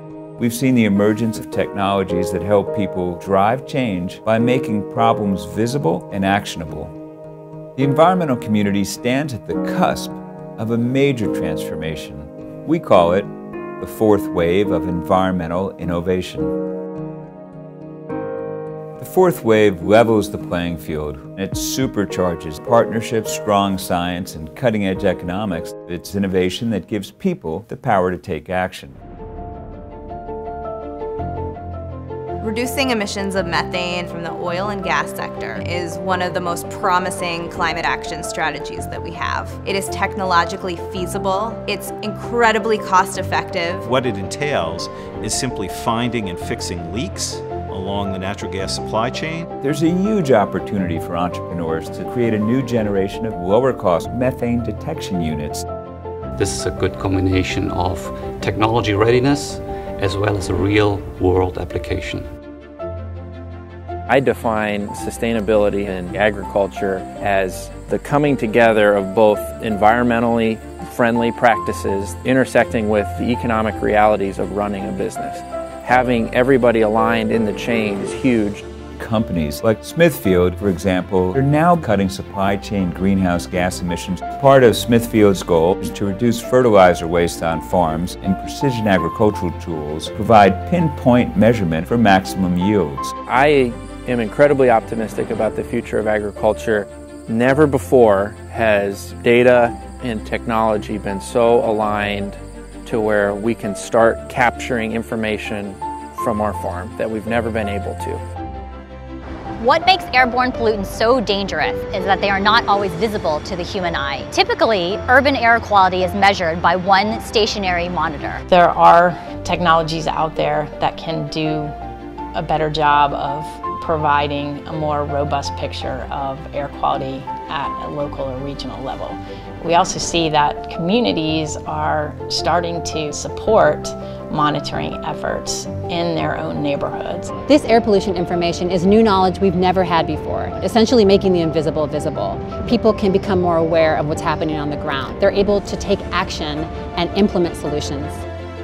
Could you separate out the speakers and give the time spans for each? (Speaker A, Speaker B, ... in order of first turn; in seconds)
Speaker A: 0.4-6.9, 7.8-16.6, 19.0-29.0, 49.6-55.6, 79.0-93.1
Speaker B: 32.4-43.9
Speaker C: 43.8-49.5
Speaker D: 56.4-62.3
Speaker E: 64.1-78.6, 93.3-108.2
Speaker F: 109.6-118.4
Speaker G: 118.5-121.7, 122.3-137.3
Speaker H: 137.5-148.2